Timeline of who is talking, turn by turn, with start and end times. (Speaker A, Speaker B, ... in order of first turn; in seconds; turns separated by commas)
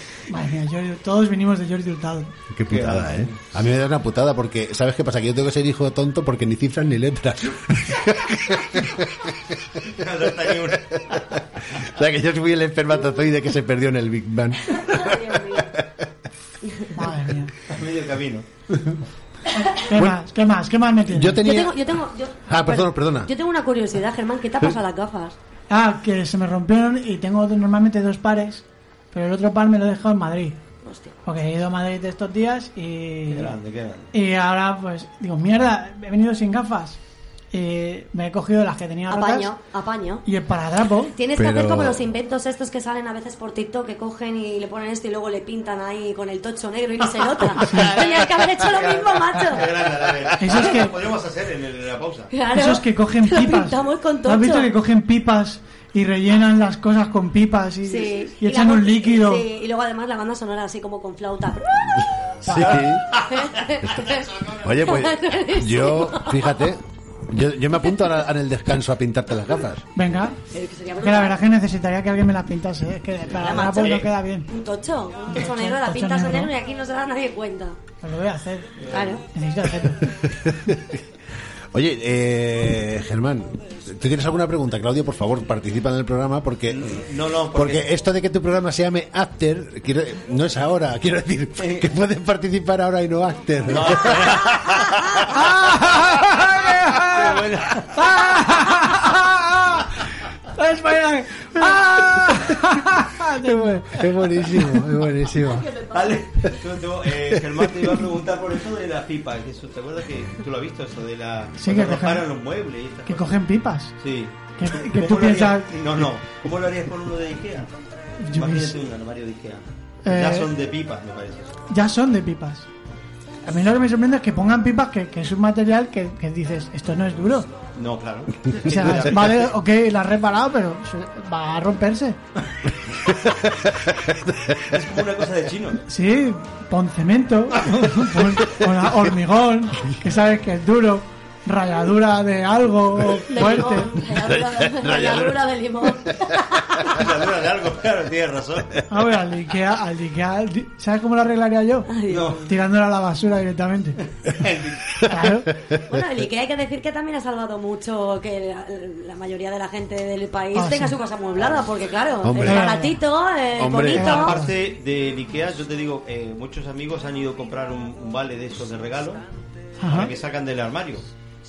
Speaker A: 0.3-2.3, Speaker B: 2.5-9.6, Speaker C: 2.7-3.4, Speaker C: 9.9-11.4, Speaker B: 11.7-16.0, Speaker D: 14.8-15.7, Speaker A: 16.9-17.5, Speaker C: 17.7-18.4, Speaker A: 19.8-21.4, Speaker B: 21.1-21.8, Speaker D: 21.4-25.4, Speaker B: 22.5-23.3, Speaker A: 25.7-30.6, Speaker D: 30.8-31.1, Speaker A: 31.2-33.5, Speaker C: 33.3-34.1, Speaker A: 34.1-37.0, Speaker A: 37.5-39.5, Speaker D: 39.1-40.2, Speaker A: 40.2-41.1, Speaker D: 41.1-49.7, Speaker B: 41.3-42.0, Speaker C: 47.6-52.3, Speaker A: 50.4-50.9, Speaker D: 52.3-54.7, Speaker A: 52.5-59.4, Speaker D: 57.8-62.0, Speaker B: 62.4-63.0, Speaker A: 62.5-62.7, Speaker D: 63.2-66.5, Speaker B: 63.9-69.8, Speaker A: 69.9-70.4, Speaker D: 70.5-71.4, Speaker A: 71.0-74.5, Speaker D: 73.4-77.8, Speaker C: 73.6-74.0, Speaker A: 75.3-76.5, Speaker A: 78.0-78.7, Speaker C: 78.8-79.2, Speaker D: 78.9-79.2, Speaker A: 79.3-80.0, Speaker B: 80.1-81.0, Speaker B: 81.7-94.7, Speaker C: 86.7-87.8, Speaker C: 91.6-91.8, Speaker C: 93.7-94.8, Speaker A: 95.3-97.2, Speaker C: 97.0-98.1, Speaker A: 98.0-99.8, Speaker A: 100.5-104.9, Speaker B: 101.6-102.5, Speaker B: 103.4-105.7, Speaker C: 105.9-113.4, Speaker A: 111.6-112.3, Speaker A: 113.1-113.9, Speaker C: 114.0-117.7, Speaker A: 114.6-115.8, Speaker A: 118.2-118.8, Speaker C: 118.3-121.6, Speaker A: 120.0-120.5, Speaker A: 121.7-122.7, Speaker A: 123.5-127.5, Speaker C: 127.8-129.5, Speaker A: 128.6-132.2, Speaker B: 133.1-134.7, Speaker C: 134.7-135.8, Speaker A: 135.9-143.9, Speaker D: 143.3-146.9, Speaker B: 144.1-146.0, Speaker C: 146.9-148.8, Speaker A: 148.9-151.9, Speaker D: 151.9-152.4, Speaker C: 152.1-152.5, Speaker A: 152.4-154.0, Speaker C: 154.2-155.1, Speaker A: 155.1-155.5, Speaker D: 155.9-164.4, Speaker A: 160.5-161.0, Speaker B: 162.2-162.7, Speaker A: 162.4-163.0, Speaker B: 163.6-164.2, Speaker A: 163.9-164.5, Speaker C: 164.0-169.2, Speaker A: 169.8-170.1, Speaker C: 169.9-171.1